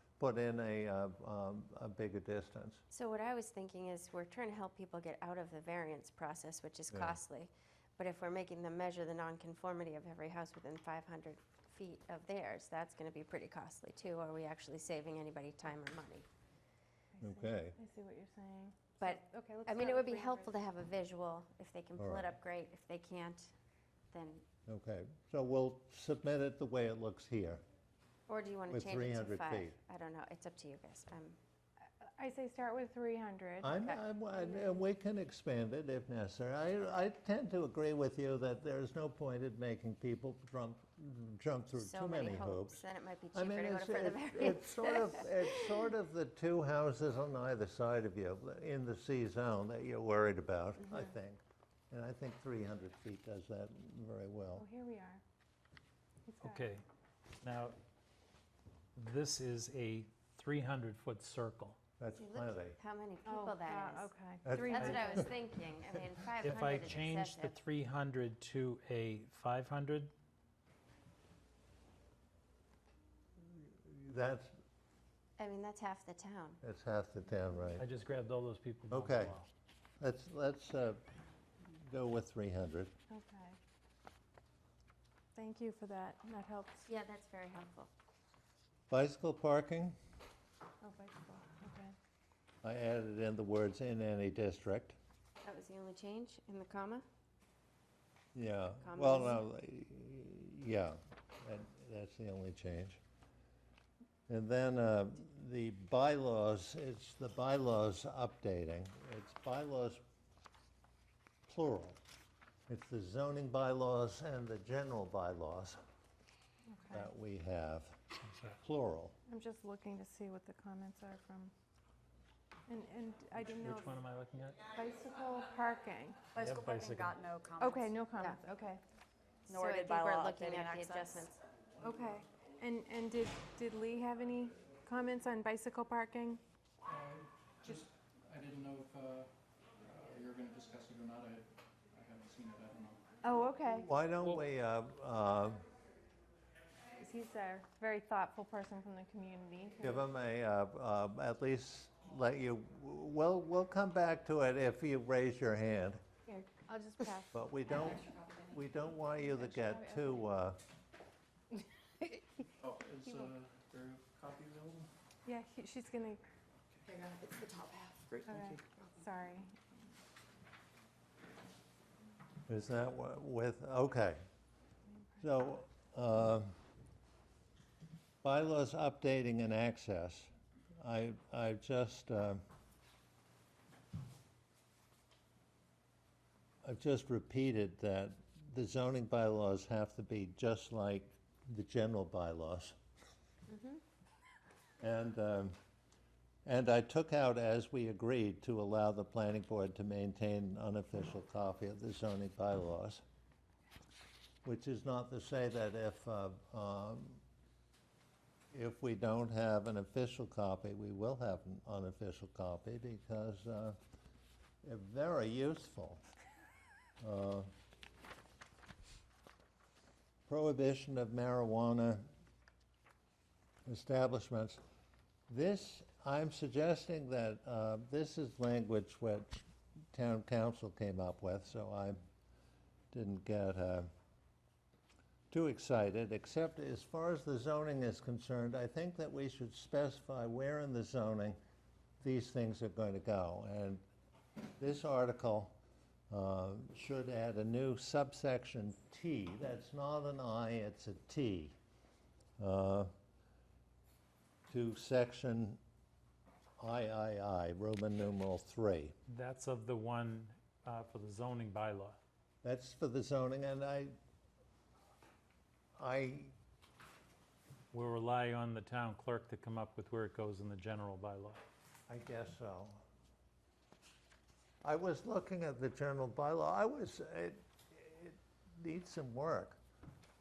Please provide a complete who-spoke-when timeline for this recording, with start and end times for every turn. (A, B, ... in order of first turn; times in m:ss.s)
0:00.2-0:02.8 A
0:02.9-0:16.3 B
0:06.9-0:07.2 A
0:17.1-0:20.5 C
0:17.2-0:17.8 A
0:19.0-0:23.5 B
0:22.0-0:22.3 A
0:24.1-0:24.4 B
0:24.7-0:27.6 A
0:28.3-0:31.4 B
0:28.7-0:29.8 A
0:32.2-0:33.7 C
0:33.6-0:54.7 A
0:33.8-0:34.5 B
0:41.8-0:45.7 B
0:54.5-0:55.2 C
0:56.3-0:56.8 C
0:56.4-0:56.8 D
0:57.4-0:57.8 D
0:59.0-1:01.8 D
1:02.0-1:02.8 A
1:02.1-1:07.6 B
1:03.2-1:05.3 C
1:04.4-1:05.2 A
1:06.4-1:10.1 D
1:13.4-1:14.5 A
1:15.4-1:16.6 B
1:16.6-1:17.8 A
1:17.8-1:19.5 D
1:18.9-1:19.4 A
1:20.0-1:21.0 A
1:21.6-1:22.9 A
1:23.1-1:23.6 C
1:25.4-1:26.8 C
1:26.8-1:27.9 B
1:28.9-1:30.0 A
1:30.8-1:31.9 C
1:32.6-1:35.0 A
1:35.4-1:37.0 B
1:38.3-1:43.0 A
1:38.8-1:39.4 B
1:44.3-1:50.0 A
1:51.4-1:52.0 A
1:52.7-1:55.8 A
1:56.7-1:57.1 C
1:56.9-1:58.0 A
1:58.5-1:59.2 A
1:59.3-2:01.5 C
2:02.7-2:04.0 C
2:03.4-2:04.6 D
2:04.7-2:06.3 C
2:06.3-2:07.2 D
2:06.3-2:07.9 E
2:07.6-2:08.8 C
2:09.5-2:11.2 E
2:09.5-2:11.4 B
2:11.8-2:12.2 F
2:12.0-2:16.4 C
2:16.8-2:19.3 F
2:19.8-2:23.0 F
2:23.2-2:23.9 C
2:23.8-2:25.6 A
2:27.0-2:30.0 C
2:29.8-2:36.0 A
2:36.3-2:37.4 C
2:37.3-2:40.6 A
2:39.3-2:40.2 C
2:42.6-2:44.9 F
2:45.2-2:46.2 C
2:47.0-2:48.1 E
2:48.1-2:48.6 F
2:48.2-2:49.6 C
2:52.5-2:54.2 A
2:55.2-2:56.5 A
2:58.2-3:02.4 A
3:06.6-3:12.7 A
3:13.5-3:13.8 B
3:14.8-3:15.6 A
3:16.4-3:23.0 A
3:24.4-3:27.2 A
3:28.5-3:33.8 A
3:34.6-3:36.0 A
3:37.0-3:37.5 A
3:40.3-3:42.1 A
3:43.6-3:44.6 A
3:45.3-3:52.0 A
3:52.9-3:53.9 A
3:55.3-4:01.4 A
4:02.0-4:03.8 A
4:04.6-4:05.6 A
4:06.1-4:11.6 A
4:12.4-4:12.9 A
4:14.5-4:15.6 A
4:16.6-4:18.9 A
4:19.1-4:22.0 D
4:22.4-4:23.9 A
4:25.8-4:26.3 A
4:27.7-4:31.4 D
4:31.9-4:32.8 A
4:34.6-4:39.6 A